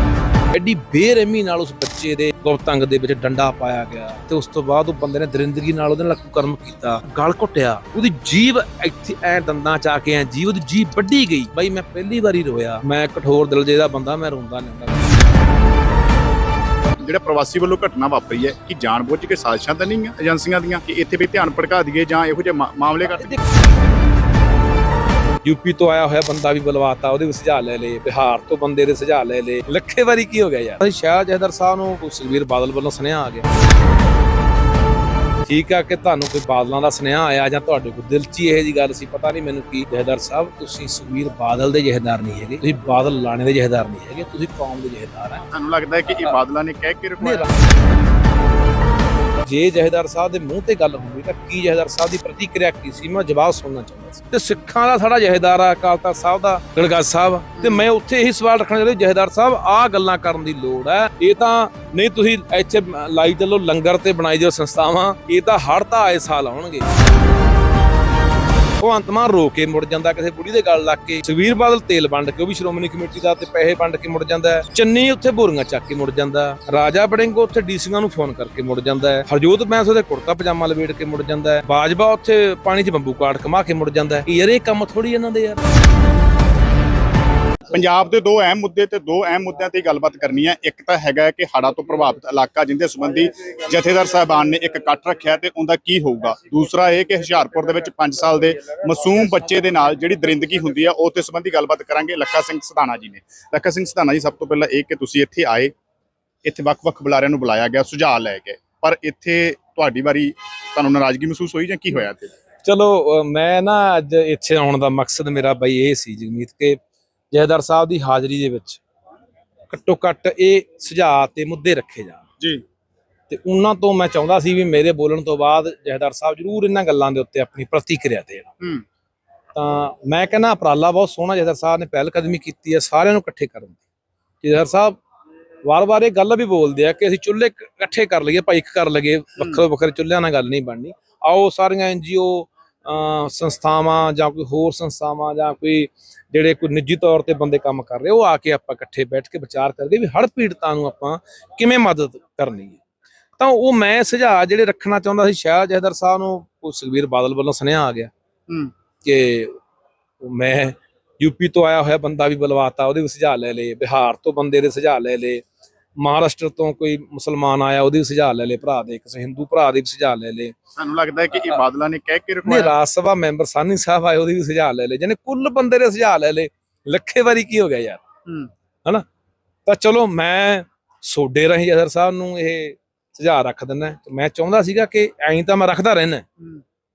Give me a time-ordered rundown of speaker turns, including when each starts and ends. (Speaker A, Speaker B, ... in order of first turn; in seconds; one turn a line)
Speaker A: 0.5-15.1
Speaker B: 17.0-23.4
Speaker A: 23.1-23.4
Speaker A: 25.4-33.5
Speaker A: 35.5-45.5
Speaker B: 45.5-47.5
Speaker A: 47.2-47.5
Speaker A: 49.4-66.9
Speaker B: 57.6-57.9
Speaker A: 68.8-85.6
Speaker B: 87.7-105.7
Speaker B: 106.4-112.3
Speaker A: 112.6-116.8
Speaker A: 117.3-118.8
Speaker A: 119.7-122.3
Speaker A: 123.3-128.5
Speaker A: 129.6-133.8
Speaker A: 134.4-135.0
Speaker A: 135.7-152.8
Speaker B: 139.4-139.6
Speaker A: 153.4-158.1
Speaker A: 159.0-159.6
Speaker A: 160.2-165.4
Speaker A: 166.0-170.6
Speaker B: 170.8-172.7
Speaker A: 172.5-178.1
Speaker A: 179.7-186.2